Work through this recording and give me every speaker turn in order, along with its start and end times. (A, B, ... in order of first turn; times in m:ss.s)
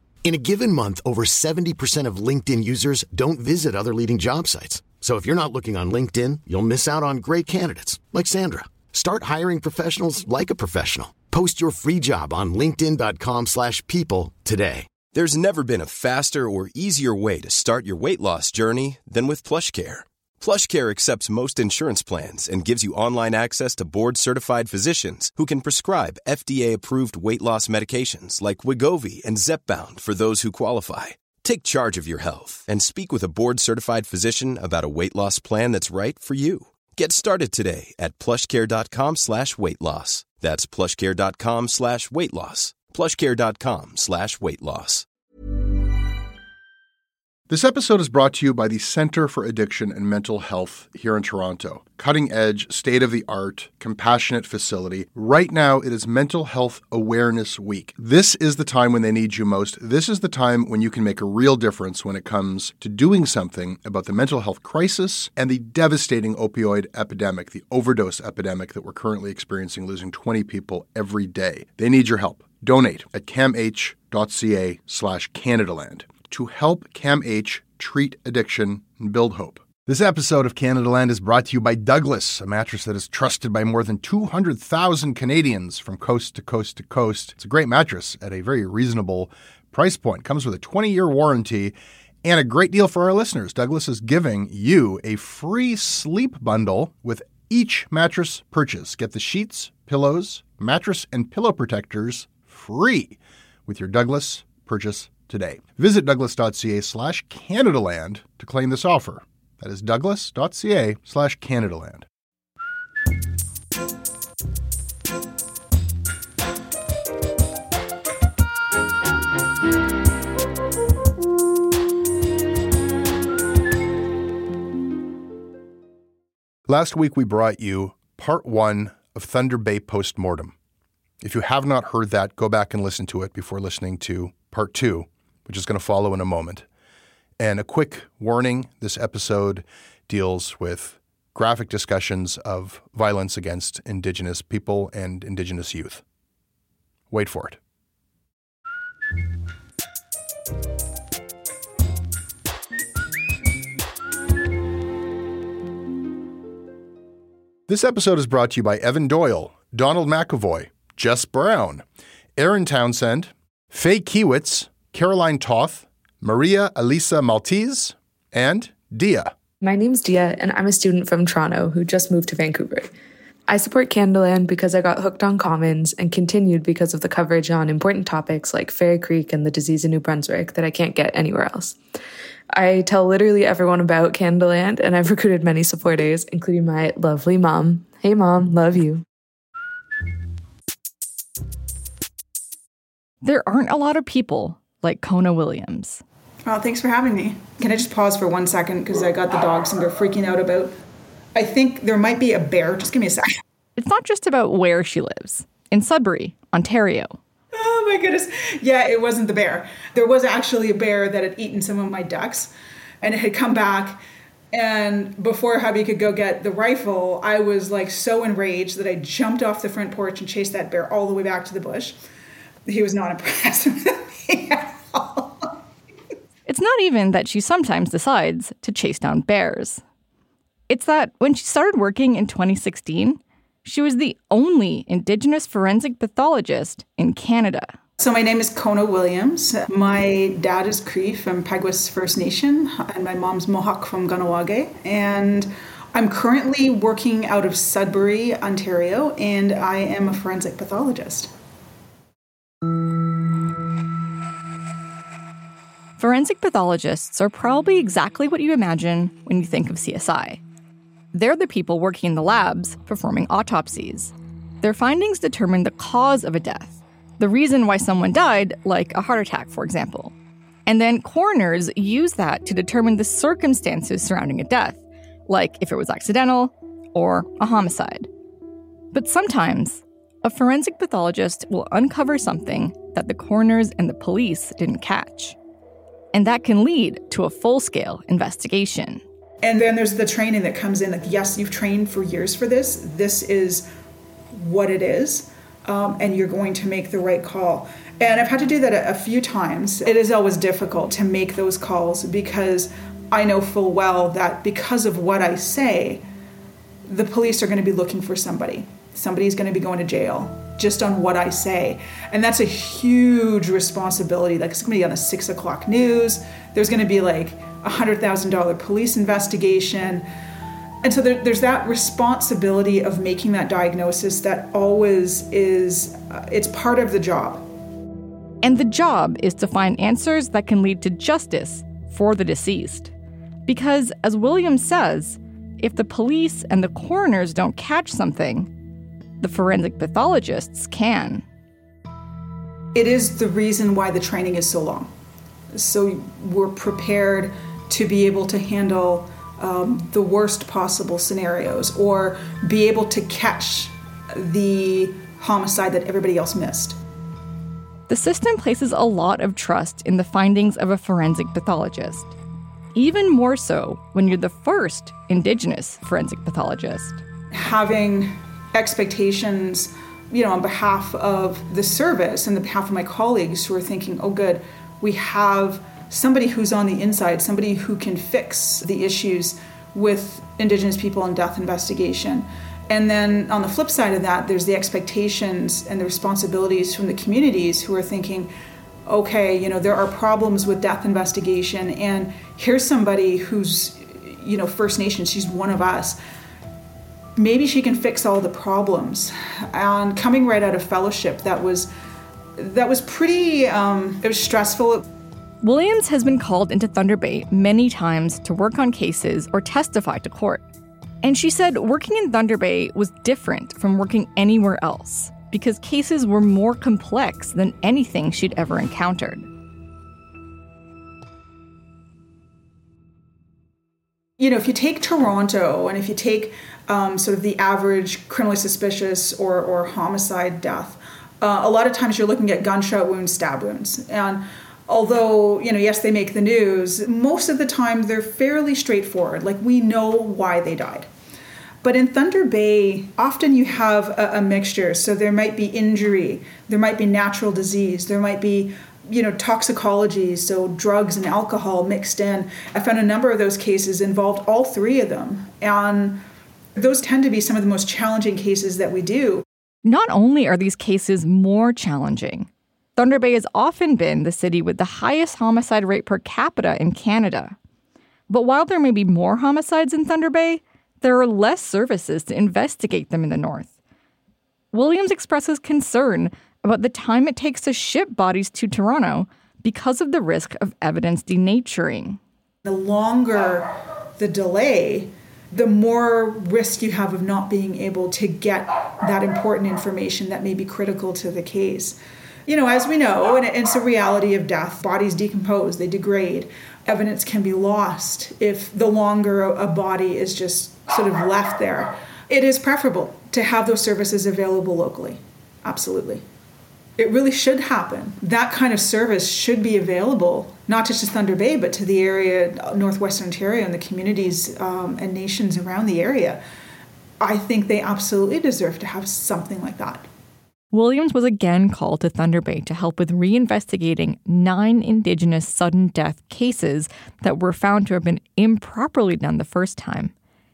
0:00.2-0:15.0 A
0:15.1-0:45.1 B
0:47.5-1:52.1 C
2:06.7-2:10.5 C
2:11.2-2:16.6 C
2:17.4-2:26.0 C
2:27.1-2:27.6 C
2:37.7-2:41.8 C
2:42.4-2:49.3 C
2:49.6-2:52.9 D
2:53.5-3:01.8 D
3:02.6-3:09.0 D
3:13.2-3:16.0 E
3:16.5-3:20.7 F
3:21.4-3:23.4 F
3:23.8-3:27.2 E
3:27.5-3:34.0 F
3:34.5-3:42.0 F
3:42.7-3:45.5 F
3:46.5-3:49.8 E
3:50.7-3:57.8 E
3:58.0-4:11.3 F
4:16.0-4:20.4 E
4:21.1-4:30.1 E
4:30.7-4:38.1 E
4:38.9-4:45.4 E
4:46.1-4:49.0 E
4:49.4-4:53.7 F
4:54.3-5:06.0 F
5:06.9-5:20.1 F
5:20.8-5:27.4 F
5:28.4-5:32.9 E
5:33.5-5:38.5 E
5:39.2-5:41.2 E
5:42.7-5:44.9 F
5:45.5-5:56.8 F
5:57.9-6:02.1 E
6:02.7-6:07.0 E
6:07.3-6:28.3 F
6:28.9-6:36.0 F
6:37.2-6:41.7 F
6:42.4-6:44.8 F
6:45.4-6:50.4 E
6:51.0-6:59.3 E
7:04.2-7:20.9 F
7:21.6-7:36.0 F
7:36.6-7:39.2 F
7:39.6-7:47.4 E
7:48.1-7:53.5 E
7:54.5-8:02.0 E
8:02.4-8:26.0 F
8:26.8-8:36.2 F
8:37.0-8:39.9 F
8:40.5-8:49.9 E